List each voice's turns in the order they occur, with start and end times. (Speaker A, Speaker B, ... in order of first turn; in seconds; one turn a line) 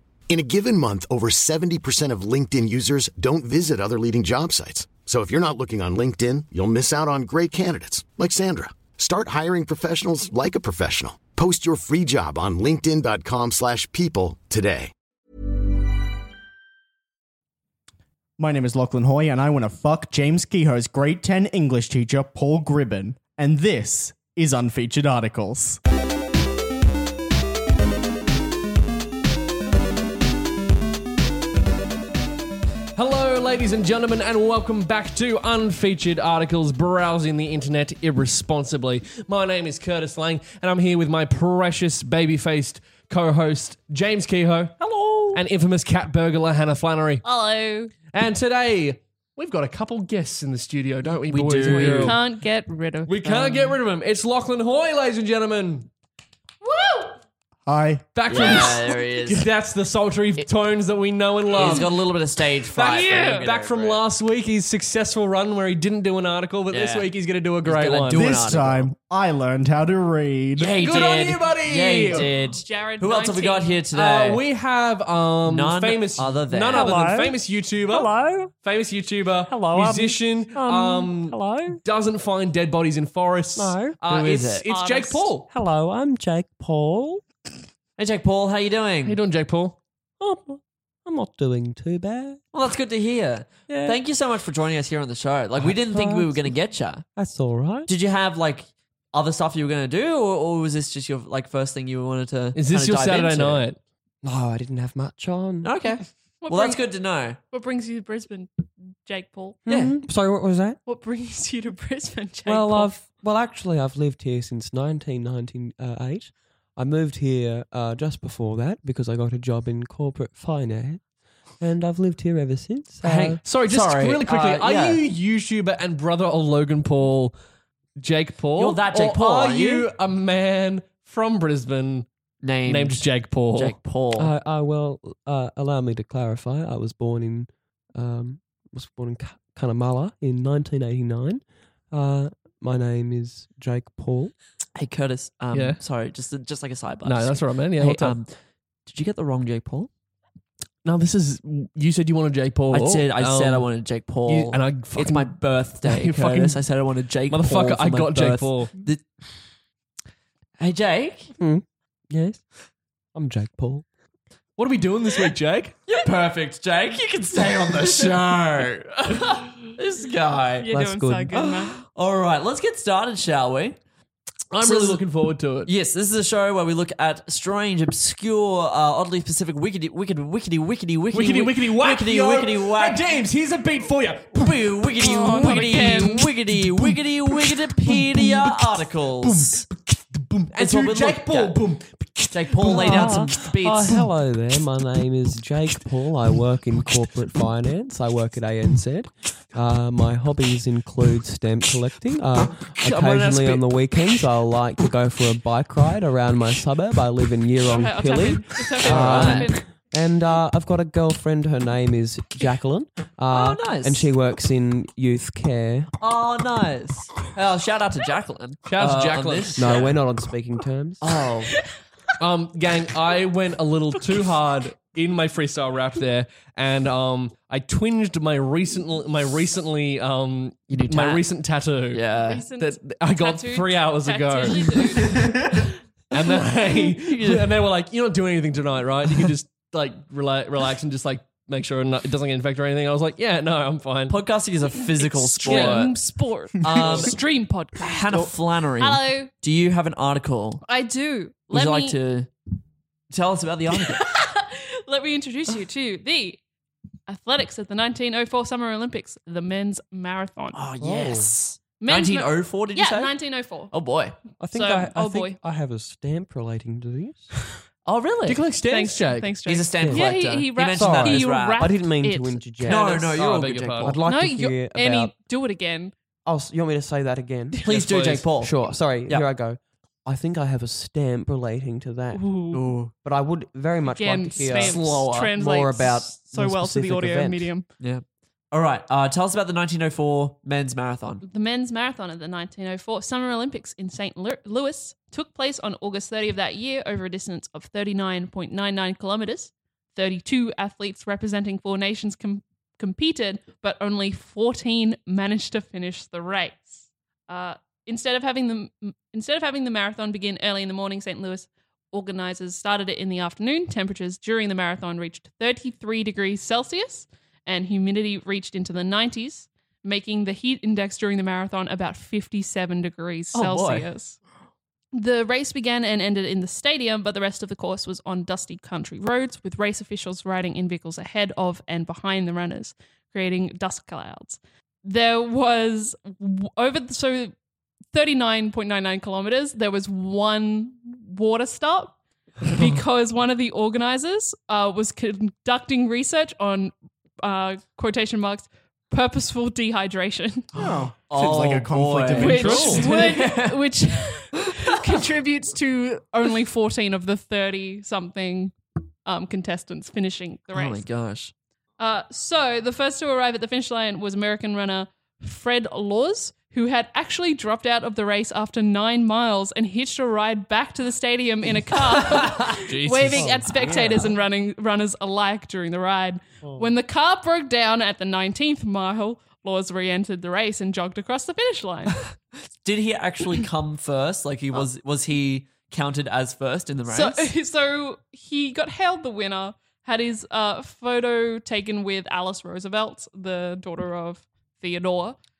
Speaker A: 0.3-14.9
Speaker B: 18.4-25.8
Speaker C: 33.0-47.2
Speaker D: 47.2-47.9
Speaker C: 48.1-52.2
Speaker E: 51.3-52.2
Speaker D: 51.9-53.7
Speaker C: 53.1-55.9
Speaker E: 53.2-53.6
Speaker D: 56.6-57.2
Speaker B: 57.6-58.1
Speaker C: 58.1-61.9
Speaker E: 58.3-59.5
Speaker E: 61.5-64.0
Speaker D: 61.5-61.9
Speaker C: 62.7-68.3
Speaker D: 62.8-63.5
Speaker E: 66.7-67.1
Speaker E: 67.6-68.9
Speaker B: 68.1-70.8
Speaker E: 70.5-74.4
Speaker C: 70.8-72.3
Speaker D: 72.6-73.8
Speaker C: 73.9-85.5
Speaker E: 75.5-76.9
Speaker F: 76.7-77.4
Speaker F: 77.9-78.5
Speaker F: 79.5-81.8
Speaker F: 83.5-84.0
Speaker E: 84.0-84.7
Speaker D: 84.7-85.3
Speaker F: 85.5-87.3
Speaker E: 88.0-89.2
Speaker C: 89.0-89.8
Speaker F: 90.2-92.4
Speaker E: 92.5-97.0
Speaker F: 93.7-94.0
Speaker F: 95.6-96.5
Speaker F: 97.2-97.9
Speaker E: 97.9-103.6
Speaker C: 102.5-103.8
Speaker F: 104.2-105.8
Speaker E: 105.6-107.4
Speaker D: 106.4-109.6
Speaker F: 109.7-110.8
Speaker E: 109.7-109.9
Speaker D: 110.8-112.9
Speaker F: 112.4-121.0
Speaker F: 121.6-123.4
Speaker E: 123.0-125.0
Speaker C: 123.4-127.3
Speaker C: 128.0-132.1
Speaker E: 128.6-129.9
Speaker E: 132.4-134.3
Speaker C: 132.6-133.8
Speaker F: 134.2-144.3
Speaker E: 144.8-148.3
Speaker C: 145.5-145.8
Speaker C: 147.0-148.2
Speaker E: 148.8-149.9
Speaker C: 150.8-156.6
Speaker E: 152.7-159.1
Speaker C: 157.3-158.7
Speaker E: 160.6-161.3
Speaker F: 161.4-162.4
Speaker F: 163.1-163.8
Speaker C: 164.6-165.7
Speaker E: 165.9-170.7
Speaker D: 170.6-171.8
Speaker F: 170.7-171.3
Speaker E: 171.3-173.8
Speaker C: 174.5-175.7
Speaker E: 174.6-175.0
Speaker E: 175.7-183.0
Speaker C: 181.1-193.5
Speaker E: 184.3-189.6
Speaker D: 185.0-186.2
Speaker E: 190.5-191.6
Speaker E: 192.3-194.0
Speaker F: 192.7-215.9
Speaker E: 202.8-203.6
Speaker C: 202.9-203.4
Speaker D: 207.7-209.6
Speaker E: 208.8-209.5
Speaker E: 213.3-214.1
Speaker E: 216.0-219.9
Speaker C: 218.7-219.8
Speaker F: 219.6-221.3
Speaker E: 221.0-221.5
Speaker C: 222.2-235.3
Speaker E: 230.7-231.2
Speaker E: 231.9-232.5
Speaker D: 232.3-235.2
Speaker C: 236.1-244.2
Speaker E: 236.2-237.6
Speaker E: 244.1-245.9
Speaker D: 244.9-249.3
Speaker C: 245.4-245.9
Speaker E: 246.6-247.2
Speaker B: 246.6-247.1
Speaker C: 246.8-247.1
Speaker E: 247.8-250.6
Speaker D: 250.6-252.0
Speaker E: 251.5-252.3
Speaker E: 253.1-254.0
Speaker D: 253.7-256.4
Speaker D: 257.1-260.6
Speaker E: 260.5-264.1
Speaker F: 260.8-261.3
Speaker D: 261.8-263.7
Speaker F: 264.4-267.3
Speaker D: 264.5-265.4
Speaker E: 267.8-268.4
Speaker C: 268.2-269.4
Speaker D: 268.7-273.1
Speaker E: 269.4-271.7
Speaker F: 269.8-272.9
Speaker E: 272.6-273.9
Speaker C: 272.9-274.0
Speaker F: 273.8-275.1
Speaker D: 274.0-275.9
Speaker F: 276.2-277.6
Speaker E: 277.6-278.5
Speaker C: 277.7-278.3
Speaker F: 278.4-282.3
Speaker D: 282.1-282.6
Speaker E: 282.5-282.9
Speaker F: 282.9-287.5
Speaker D: 283.9-287.6
Speaker E: 284.4-285.3
Speaker E: 287.8-291.2
Speaker D: 291.2-324.2
Speaker E: 323.3-323.9
Speaker D: 324.9-337.3
Speaker D: 337.9-350.5
Speaker B: 350.5-353.1
Speaker E: 351.1-353.7
Speaker C: 352.2-352.9
Speaker D: 352.2-360.9
Speaker E: 360.5-361.3
Speaker D: 361.8-382.0
Speaker E: 372.1-373.8
Speaker F: 373.1-374.1
Speaker F: 376.4-376.7
Speaker E: 382.6-387.3
Speaker D: 386.9-395.2